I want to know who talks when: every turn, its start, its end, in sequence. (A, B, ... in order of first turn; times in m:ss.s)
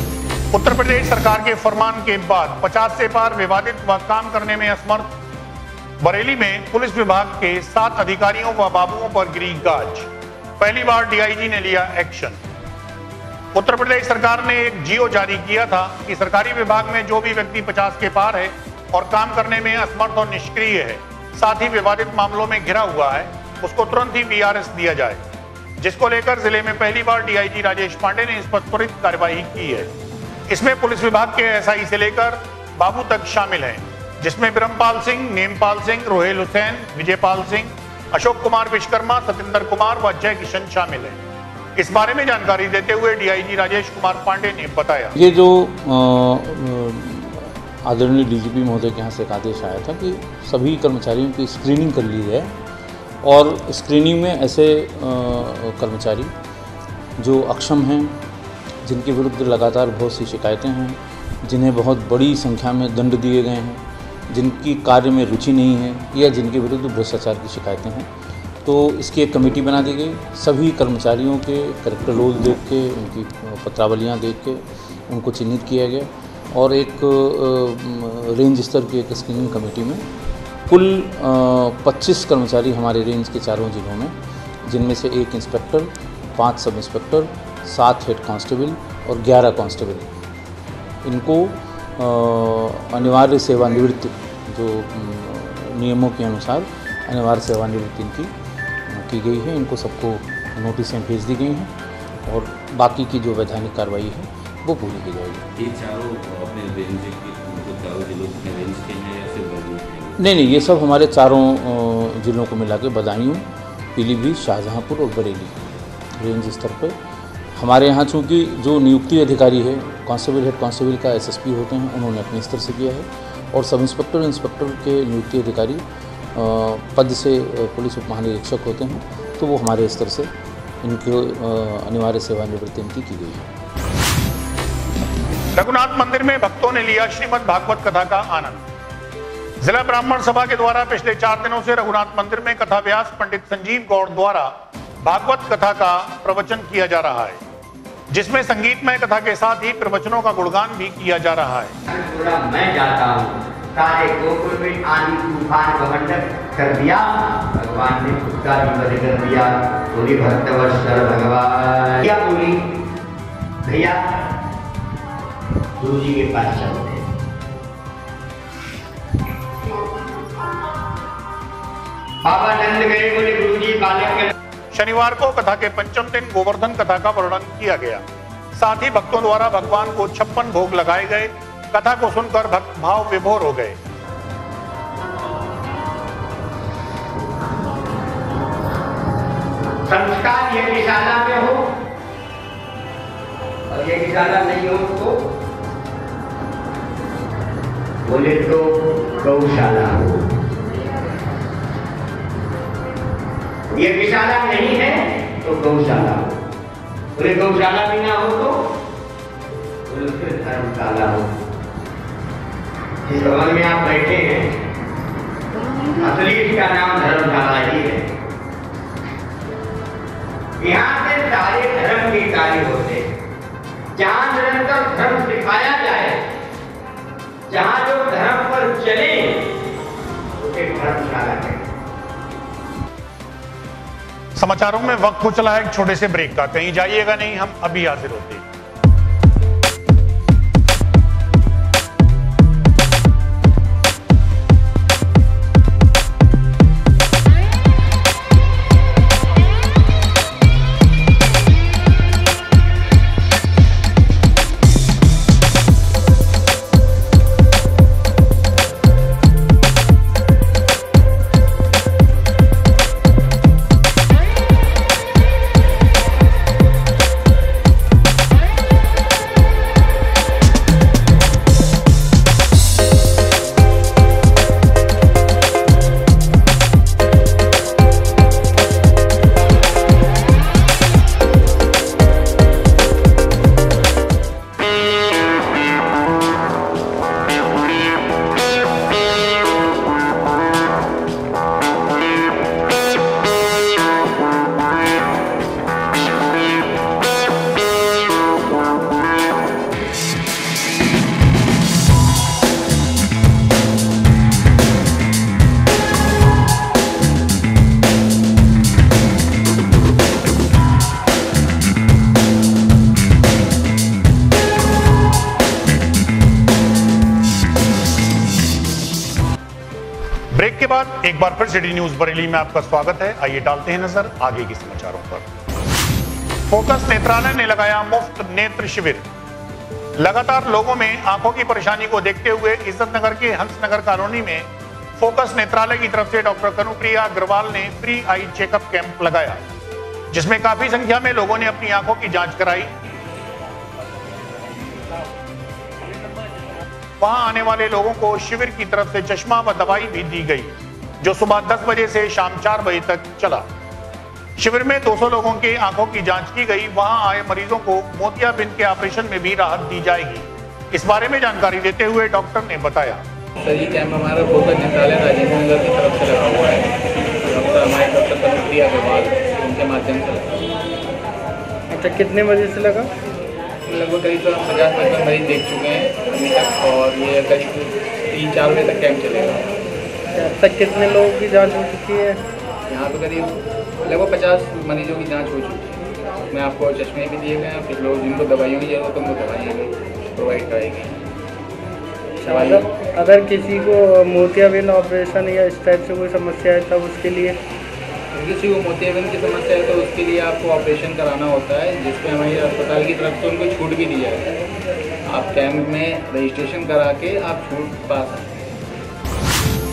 0:00.5-0:05.1 A
0:06.0-0:10.1 A
0:10.6-0:12.4 A
0:13.6-0:25.2 A
0:25.8-0:29.9 A
0:30.5-0:41.2 A
0:41.8-0:45.1 A
0:45.2-0:52.6 B
0:53.2-0:56.3 B
0:57.2-0:58.2 B
0:58.8-1:08.1 B
1:08.6-1:20.0 B
1:20.7-1:24.2 B
1:24.7-1:30.1 B
1:31.0-1:38.3 B
1:38.9-1:41.7 B
1:42.3-1:45.4 B
1:45.6-1:50.2 C
1:50.2-1:55.6 B
1:56.2-1:57.0 B
1:57.6-2:05.8 B
2:06.4-2:10.3 B
2:10.8-2:13.4 B
2:15.6-2:18.6 A
2:19.6-2:24.5 A
2:25.0-2:27.4 A
2:28.1-2:31.7 A
2:31.9-2:42.6 D
2:43.6-2:44.2 D
2:45.8-2:47.0 D
2:52.2-2:54.3 D
2:54.7-2:58.0 A
2:58.6-3:03.8 A
3:09.9-3:11.7 D
3:13.7-3:15.2 D
3:18.0-3:20.2 D
3:23.7-3:26.4 D
3:27.2-3:28.7 D
3:29.9-3:31.3 D
3:33.0-3:34.5 D
3:36.0-3:38.1 D
3:40.6-3:43.1 D
3:44.0-3:46.2 D
3:47.5-3:49.5 D
3:50.4-3:51.6 D
3:54.4-3:58.4 A
5:20.3-5:25.2 A
5:26.5-5:29.1 A
5:30.0-5:39.4 A
5:40.1-5:42.7 A
5:47.0-5:53.4 A
5:54.4-6:03.0 A
6:03.4-6:10.4 E
6:11.7-6:12.9 F
6:13.7-6:19.5 E
6:20.2-6:22.2 F
6:22.7-6:31.0 E
6:32.2-6:37.4 F
6:32.3-6:32.8 E
6:38.1-6:44.4 E
6:45.1-6:48.4 E